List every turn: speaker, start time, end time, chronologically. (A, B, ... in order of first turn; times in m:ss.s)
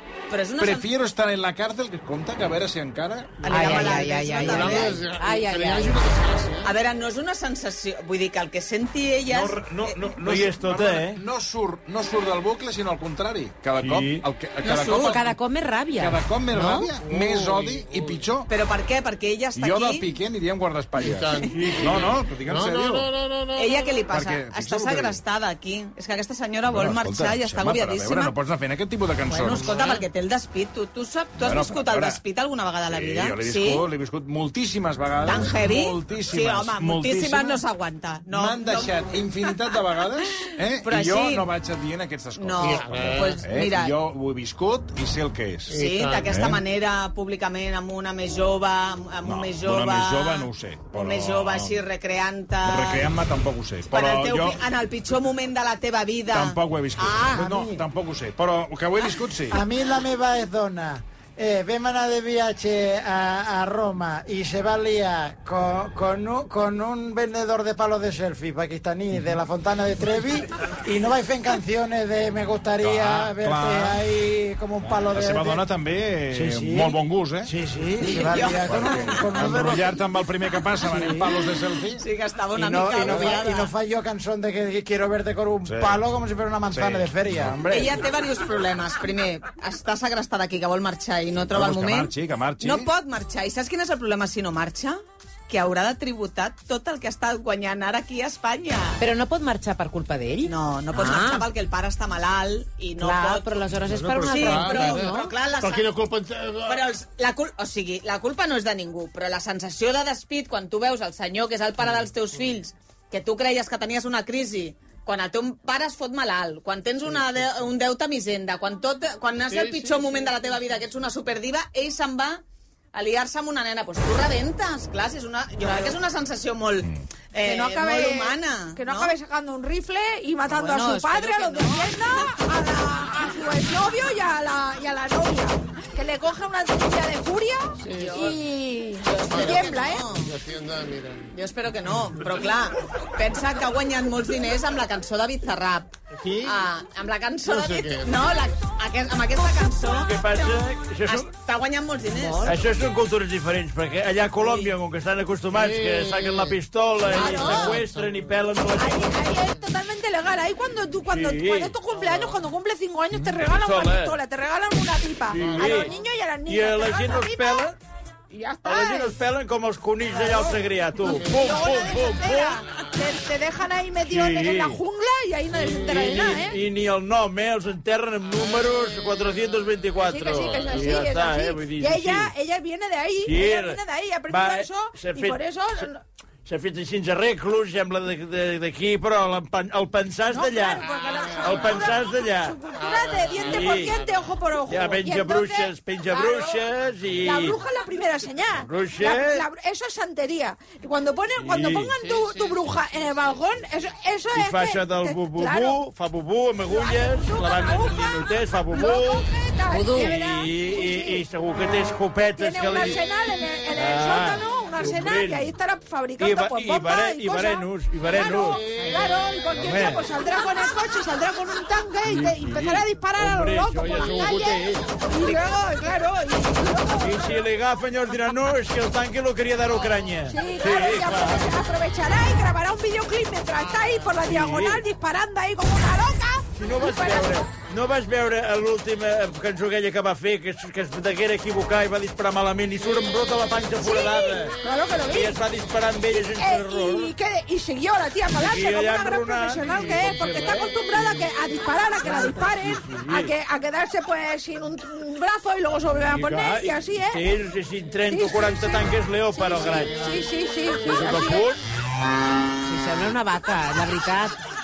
0:00.3-0:00.9 A
0:00.6-0:03.5 B
0:03.4-0:06.7 C
0:03.4-0:05.0 A
0:03.5-0:06.1 D
0:06.6-0:10.1 A
0:09.3-0:15.4 B
0:10.2-0:11.2 E
0:13.8-0:14.3 E
0:14.7-0:16.9 D
0:14.7-0:15.2 A
0:16.0-0:18.5 B
0:16.6-0:18.3 C
0:18.5-0:20.1 A
0:19.6-0:23.1 B
0:21.0-0:24.1 C
0:23.6-0:28.4 A
0:24.1-0:25.2 B
0:26.7-0:29.7 B
0:29.3-0:33.8 A
0:29.5-0:29.8 C
0:31.4-0:32.2 B
0:32.9-0:37.6 B
0:35.2-0:39.6 A
0:38.3-0:46.6 B
0:40.8-0:41.5 A
0:42.4-0:44.0 A
0:42.6-0:43.3 C
0:45.7-0:46.3 C
0:45.7-0:53.1 A
0:49.2-0:51.8 B
0:52.6-0:54.6 B
0:53.9-0:57.4 A
0:56.3-0:59.6 B
0:57.3-0:57.8 F
0:59.5-1:15.6 F
1:12.8-1:14.0 B
1:14.8-1:17.5 B
1:16.3-1:18.3 E
1:18.0-1:20.0 F
1:18.1-1:19.3 A
1:18.7-1:22.0 B
1:22.0-1:23.7 A
1:22.6-1:27.9 F
1:25.6-1:26.0 B
1:26.7-1:27.7 B
1:27.7-1:39.1 A
1:31.5-1:32.9 B
1:39.0-1:41.5 D
1:40.4-1:43.7 A
1:43.0-1:45.3 D
1:43.8-1:46.8 C
1:44.2-1:45.9 A
1:46.7-2:02.4 A
1:59.5-2:00.2 C
2:02.9-2:09.2 A
2:05.6-2:06.0 G
2:07.4-2:20.1 G
2:10.5-2:12.3 A
2:17.8-2:18.4 C
2:17.9-2:18.3 A
2:19.0-2:20.3 A
2:19.3-2:21.3 C
2:21.3-2:30.5 A
2:26.1-2:26.6 C
2:27.5-2:28.2 C
2:30.0-2:31.3 E
2:31.0-2:32.6 A
2:32.2-2:32.5 D
2:32.4-2:39.1 E
2:34.4-2:34.7 A
2:35.5-2:38.3 C
2:37.1-2:37.8 G
2:38.7-2:47.7 G
2:41.1-2:41.8 E
2:42.1-2:42.4 C
2:43.4-2:44.2 E
2:45.3-2:45.9 E
2:45.3-2:46.0 C
2:46.5-2:47.8 E
2:48.3-2:49.2 G
2:48.6-2:52.7 E
2:50.2-2:56.6 G
2:51.1-2:51.5 C
2:54.1-2:54.8 E
2:55.5-3:02.3 E
3:00.0-3:06.0 G
3:03.2-3:05.8 E
3:06.5-3:10.8 E
3:10.3-3:16.6 G
3:11.0-3:11.9 C
3:11.4-3:12.6 E
3:12.7-3:14.4 C
3:13.4-3:14.0 E
3:14.7-3:17.6 E
3:17.2-3:25.8 G
3:18.6-3:19.4 E
3:21.4-3:22.0 E
3:22.2-3:22.6 C
3:24.4-3:29.3 E
3:26.7-3:31.2 G
3:29.7-3:30.2 D
3:29.9-3:33.1 E
3:32.3-3:47.5 G
3:33.7-3:35.6 E
3:36.2-3:38.8 E
3:38.4-3:39.2 C
3:39.5-3:40.1 E
3:42.0-3:45.4 E
3:47.0-3:51.6 E
3:50.3-3:57.5 G
3:54.1-3:54.8 E
3:56.6-4:04.6 E
4:03.8-4:05.4 G
4:05.1-4:07.1 E
4:06.1-4:17.3 G
4:08.4-4:11.3 E
4:12.0-4:13.3 E
4:16.1-4:20.1 E
4:18.1-4:21.5 G
4:19.7-4:20.2 C
4:20.7-4:21.6 E
4:22.6-4:24.4 D